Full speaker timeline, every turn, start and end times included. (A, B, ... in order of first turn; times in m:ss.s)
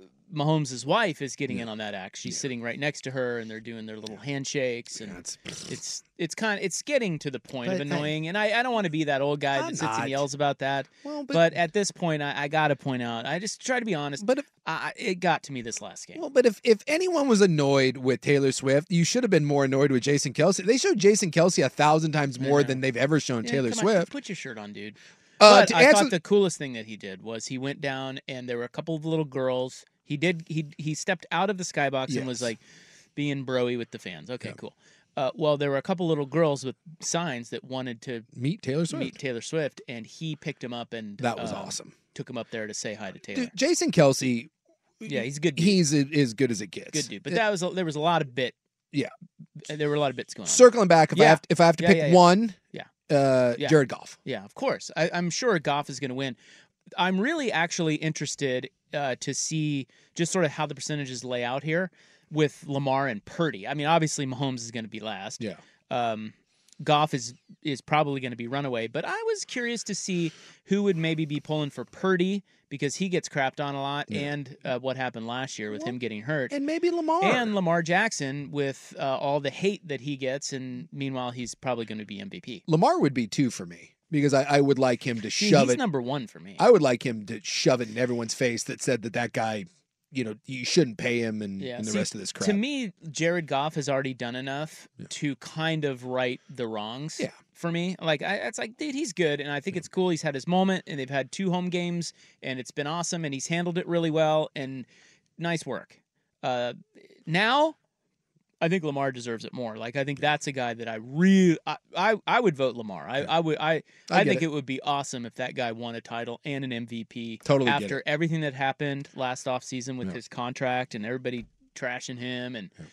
0:00.3-0:16.2 A
0:05.0-0:05.7 B
0:07.6-0:08.1 B
0:09.6-0:10.2 B
0:11.0-0:11.5 B
0:14.2-0:14.4 B
0:16.2-0:24.1 B
0:22.4-0:22.8 A
0:23.4-0:32.6 A
0:25.4-0:26.2 B
0:32.1-0:32.5 B
0:33.2-0:38.3 A
0:38.4-0:39.2 B
0:38.9-0:43.5 A
0:41.2-0:42.0 B
0:43.3-0:44.5 B
0:45.0-0:47.4 B
0:45.1-0:45.8 A
0:46.9-0:48.6 A
0:49.7-0:52.9 A
0:50.5-0:52.6 B
0:53.1-0:54.2 B
0:53.6-0:56.4 A
0:57.0-1:16.6 A
1:16.5-1:17.5 B
1:17.2-1:22.6 A
1:22.7-1:25.8 B
1:25.4-1:26.6 A
1:26.6-1:32.6 B
1:31.6-1:44.9 A
1:45.4-1:47.8 A
1:48.6-2:02.7 A
1:54.1-1:54.4 B
1:57.4-1:58.0 B